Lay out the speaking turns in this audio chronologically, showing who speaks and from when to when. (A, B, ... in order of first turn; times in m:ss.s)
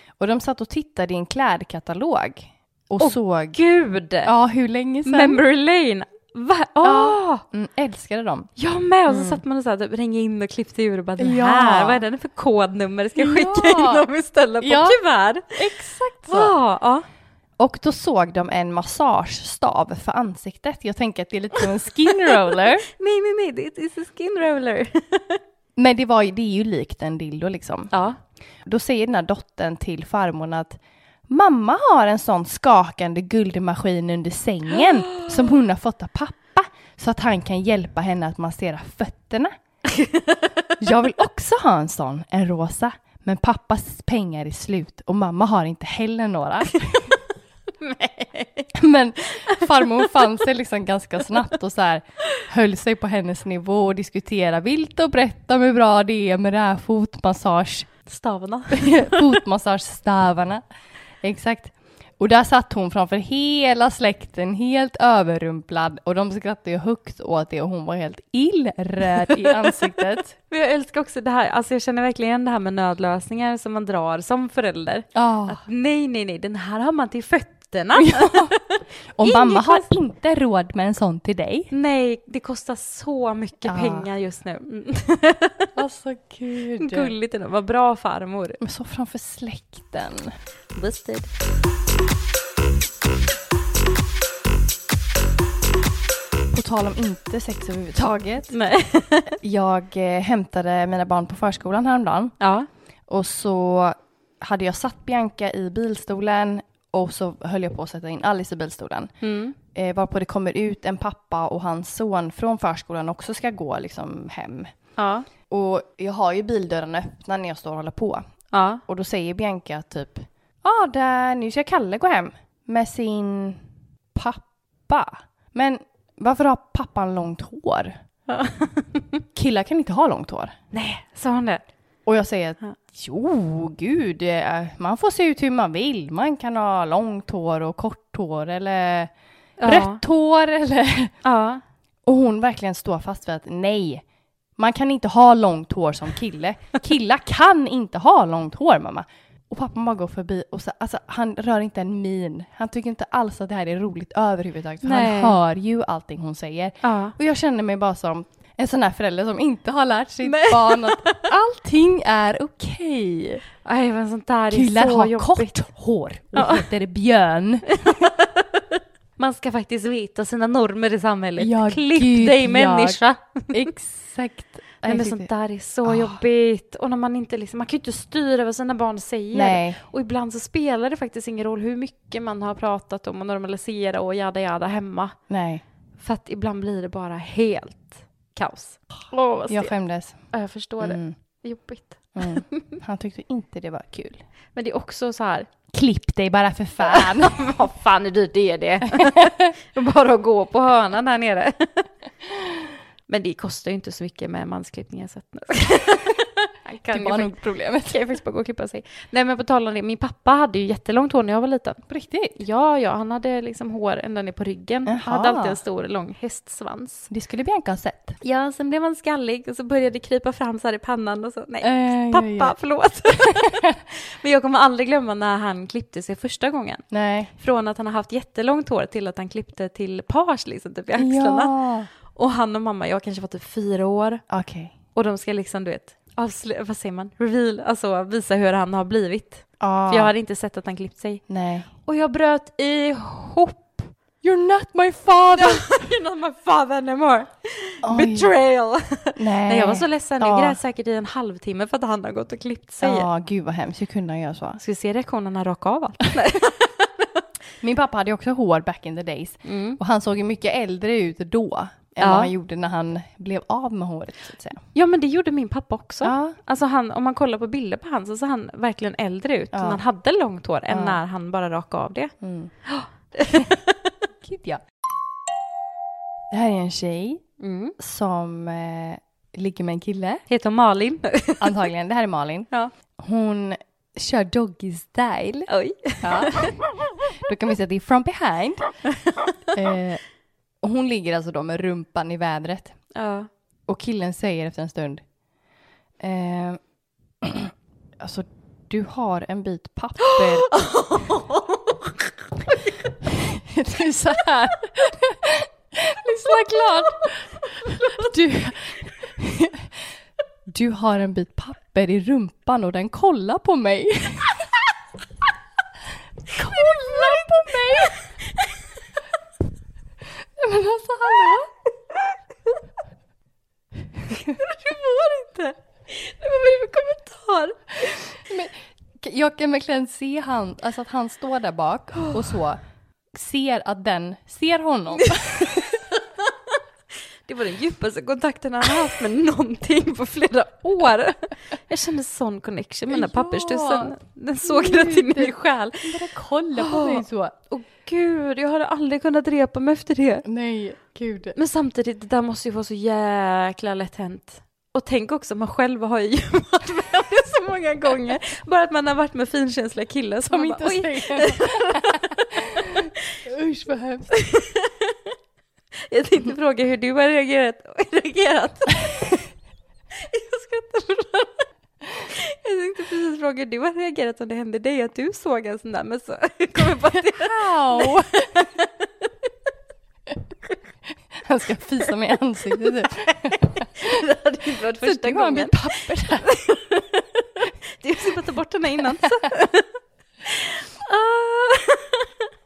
0:00.2-0:03.6 A
0:03.0-0:04.3 B
0:04.2-0:05.4 A
0:05.1-0:07.4 B
0:06.8-0:08.5 A
0:08.6-0:15.5 B
0:09.1-0:09.4 A
0:11.2-0:12.0 A
0:13.2-0:14.0 A
0:14.6-0:15.0 A
0:15.5-0:16.6 A
0:16.3-0:17.0 B
0:17.6-0:22.9 A
0:22.2-0:25.4 B
0:25.8-0:27.9 A
0:27.9-0:28.2 B
0:28.6-0:39.5 A
0:39.9-0:40.7 B
0:40.8-0:47.2 A
0:47.8-0:48.7 B
0:48.7-0:57.9 A
0:49.5-0:50.0 B
0:58.1-0:59.3 B
0:58.7-1:00.6 A
1:01.2-1:10.3 A
1:09.1-1:09.8 B
1:10.5-1:18.6 B
1:15.2-1:15.6 A
1:18.0-1:18.6 A
1:19.2-1:21.7 A
1:19.2-1:19.9 B
1:21.7-1:25.7 B
1:23.6-1:24.1 A
1:25.8-1:27.1 A
1:26.8-1:28.6 B
1:28.6-1:30.3 A
1:30.8-1:31.3 B
1:36.5-1:38.5 A
1:38.5-1:39.3 B
1:39.4-1:42.4 A
1:42.4-1:42.7 B
1:43.1-1:49.1 A
1:49.2-1:49.6 B
1:49.7-1:54.7 A
1:55.0-1:55.3 B
1:55.5-1:58.2 A
1:58.5-1:58.8 B
1:58.9-2:03.6 A
2:04.2-2:08.0 A
2:08.3-2:09.2 B
2:09.4-2:10.6 A
2:10.7-2:11.6 B
2:12.1-2:19.1 A
2:19.6-2:20.0 B
2:19.6-2:21.1 A
2:21.2-2:21.6 B
2:22.1-2:24.0 A
2:24.6-2:43.4 A
2:34.8-2:35.4 B
2:36.8-2:37.2 B
2:40.2-2:41.2 B
2:43.6-2:45.6 B
2:44.5-2:48.1 A
2:46.4-2:46.7 B
2:47.8-2:53.5 B
2:51.4-2:53.0 A
2:53.5-2:55.3 A
2:54.8-3:05.2 B
2:55.8-2:56.2 A
2:59.3-2:59.8 A
3:05.3-3:05.6 A
3:06.0-3:09.8 B
3:09.5-3:10.2 A
3:10.3-3:12.6 B
3:10.8-3:11.2 A
3:12.2-3:14.2 A
3:14.6-3:15.5 B
3:15.7-3:17.5 A
3:16.8-3:21.9 B
3:18.9-3:19.5 A
3:22.4-3:22.6 A
3:23.1-3:31.8 B
3:26.9-3:28.0 A
3:31.9-3:32.4 A
3:32.4-3:37.1 B
3:34.9-3:35.6 A
3:37.1-3:38.2 A
3:38.2-3:46.8 B
3:41.6-3:42.5 A
3:43.4-3:43.8 A
3:46.9-3:47.3 A
3:47.4-3:51.5 B
3:51.0-3:51.9 A
3:52.1-3:54.2 B
3:54.3-3:54.8 A
3:55.0-4:01.2 B
3:59.6-4:00.1 A
4:01.3-4:01.7 A
4:01.9-4:03.9 B
4:04.2-4:05.8 A
4:05.4-4:13.1 B
4:07.8-4:08.3 A
4:09.2-4:10.6 A
4:12.8-4:14.6 A
4:14.6-4:17.2 B
4:17.6-4:24.6 A
4:19.4-4:19.8 B
4:22.0-4:22.3 B
4:24.7-4:32.1 B
4:26.0-4:26.4 A
4:29.5-4:29.8 A
4:30.7-4:31.0 A
4:32.2-4:32.5 A
4:32.7-4:34.0 B
4:34.2-4:34.6 A
4:36.3-4:37.2 A
4:37.4-4:37.8 B
4:37.8-4:40.2 A
4:40.3-4:41.6 B
4:41.4-4:42.5 A
4:43.0-4:46.6 A
4:45.5-4:46.5 B
4:47.2-4:48.7 A
4:49.5-4:50.0 A
4:50.6-4:52.8 A
4:52.9-4:53.3 B
4:53.7-4:55.0 A
4:56.0-4:56.6 A
4:57.2-5:00.5 A
5:00.1-5:01.9 B
5:03.1-5:09.8 A
5:07.6-5:08.0 B
5:10.5-5:14.4 A
5:16.3-5:18.0 A
5:16.5-5:18.5 B
5:20.4-5:21.5 A
5:24.1-5:28.0 B
5:28.2-5:32.6 A
5:33.1-5:35.6 A
5:35.0-5:36.6 B
5:37.3-5:45.8 B
5:42.9-5:47.4 A
5:46.6-5:50.2 B
5:50.3-5:51.4 A
5:51.4-6:02.1 B
6:00.2-6:04.1 A
6:04.1-6:05.1 B
6:05.9-6:09.2 B
6:09.9-6:11.4 B
6:12.0-6:19.1 B
6:16.9-6:18.4 A
6:21.2-6:24.0 A
6:23.4-6:25.6 B
6:24.8-6:26.3 A
6:26.2-6:29.7 B
6:30.2-6:32.1 B